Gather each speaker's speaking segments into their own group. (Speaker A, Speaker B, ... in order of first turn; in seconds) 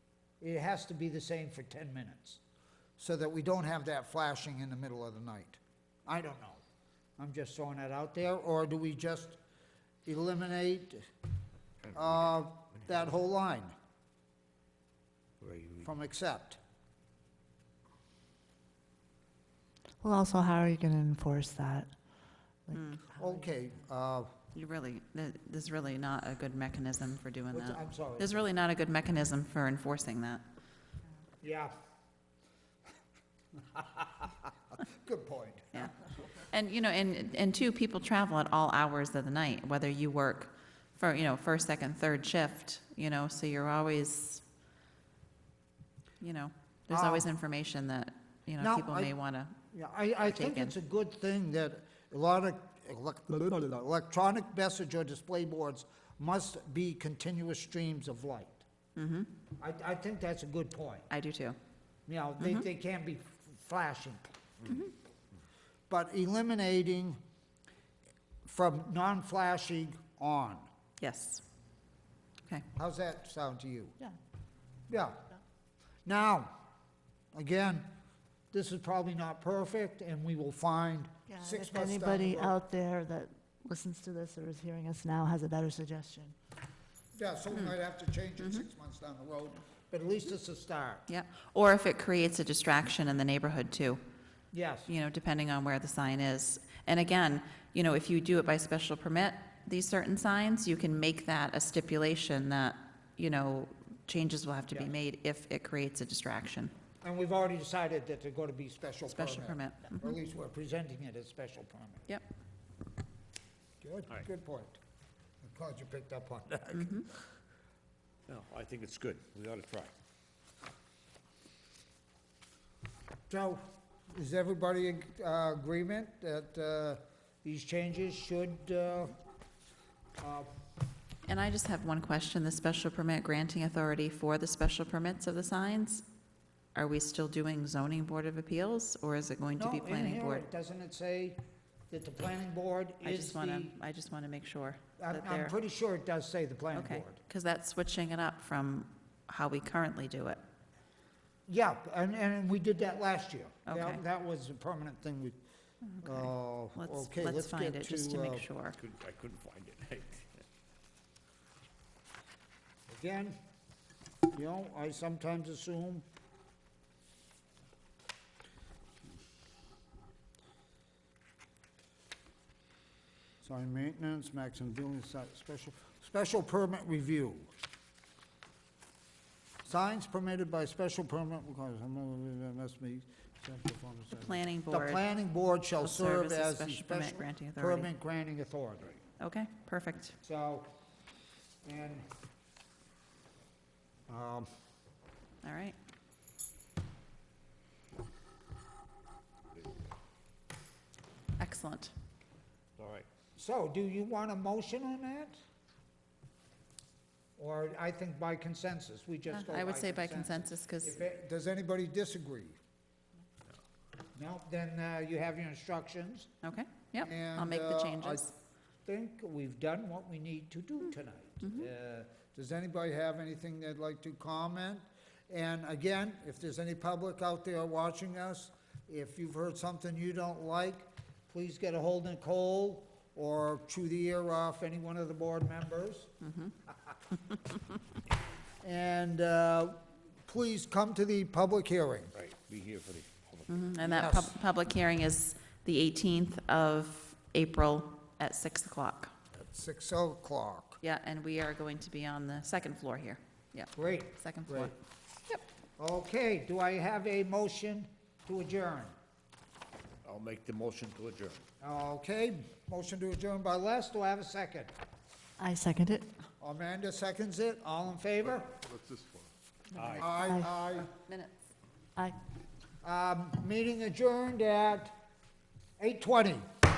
Speaker A: 0.4-2.4, 3.0-6.6, 7.2-9.4, 10.1-11.1, 11.9-13.7, 15.8-16.6, 23.1-24.3, 27.5-28.4, 31.4-31.7, 33.7-35.9, 46.9-47.3, 48.6-49.1, 49.7-58.6, 59.6-61.1, 62.1-64.3, 65.9-67.2, 68.5-70.7, 72.8-74.0, 74.9-75.2, 76.0-76.5, 77.3-77.9, 78.5-82.6, 87.2-91.1, 94.5-94.9, 107.0-112.1, 113.8-114.8, 115.4-117.0, 123.3-129.2, 130.2-130.5, 139.6-143.8, 145.0-147.2, 151.5-155.4, 156.0-158.4, 162.9-163.3, 164.3-166.1, 173.4-177.5, 179.7-188.9, 190.2-190.7, 191.6-192.1, 194.1-194.5, 203.4-205.4, 207.4-212.6, 214.2-216.3, 217.0-218.2, 218.9-236.1, 238.6-242.1, 243.8-244.3, 249.3-250.8, 253.8-254.7, 255.8-258.9, 261.6-264.7, 266.4-268.6, 270.0-270.9, 272.8-274.9, 275.8-276.4
Speaker B: 15.4-15.9, 118.3-119.9, 158.8-160.4, 202.8-203.1, 242.1-243.6, 260.1-261.4, 269.7-270.1
Speaker C: 20.0-21.9, 22.7-23.4, 81.3-86.4, 265.4-266.1, 270.1-270.5
Speaker D: 22.7-23.1, 24.6-30.4, 35.7-44.4, 46.2-49.6, 50.2-50.8, 59.0-59.3, 61.1-61.6, 62.4-62.7, 71.0-71.4, 88.4-88.6, 91.1-94.0, 94.9-106.7, 109.1-110.2, 116.7-117.1, 131.3-136.0, 136.8-140.4, 143.0-145.6, 146.7-150.4, 153.7-154.0, 155.8-158.8, 184.2-185.0, 185.8-187.9, 189.2-190.2, 195.4-195.8, 201.4-201.9, 209.3-211.0, 216.4-218.3, 236.2-236.5, 243.5-249.1, 250.8-254.8, 270.8-271.3